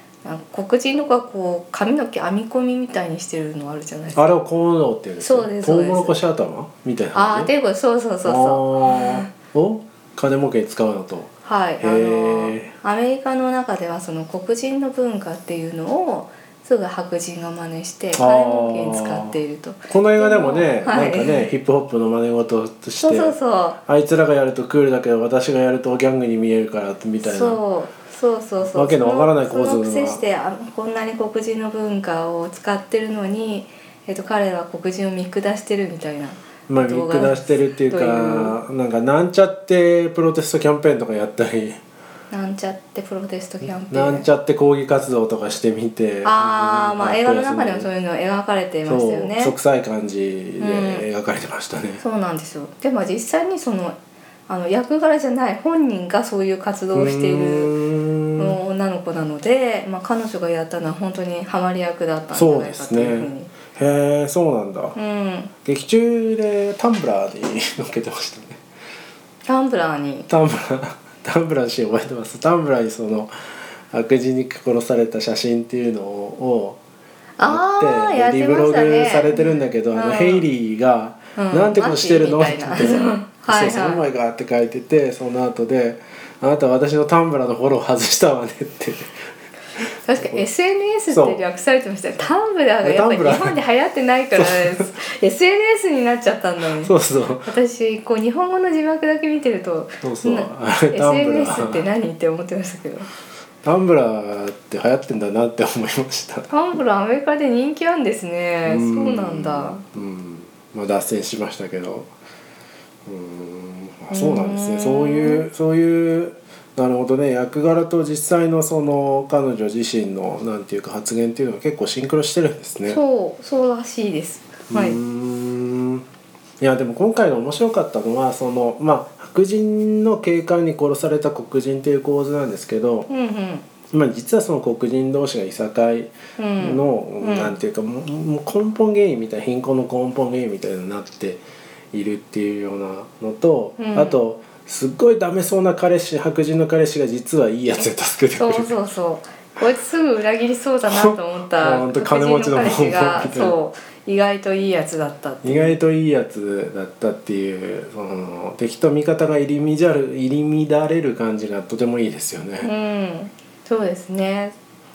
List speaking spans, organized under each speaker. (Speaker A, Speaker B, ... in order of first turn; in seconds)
Speaker A: 0.2-4.2, 5.2-6.2, 7.1-9.3, 11.4-21.5, 23.0-23.8, 27.2-38.6, 42.3-44.3, 46.2-49.5, 50.6-51.1, 52.0-54.0, 54.5-57.7, 58.4-63.5, 65.0-65.5, 69.5-70.3, 77.4-80.5, 81.4-84.0, 90.0-103.1, 106.5-109.8, 114.1-115.5, 122.9-125.0, 133.1-133.7, 136.4-137.6, 143.8-144.2, 148.4-155.8, 162.6-164.6
Speaker B: 4.1-7.5, 8.2-12.7, 18.2-19.4, 19.9-27.6, 28.7-30.2, 36.7-41.8, 43.9-47.9, 48.9-52.0, 56.9-58.6, 62.3-65.0, 65.6-68.6, 70.3-76.8, 77.4-89.1, 90.2-90.4, 91.1-91.4, 92.8-93.6, 94.4-94.9, 96.8-97.5, 100.0-101.9, 103.6-106.5, 108.7-112.1, 113.1-123.0, 124.7-126.0, 126.6-133.1, 133.9-141.4, 141.9-148.8, 150.9-153.6, 155.4-162.7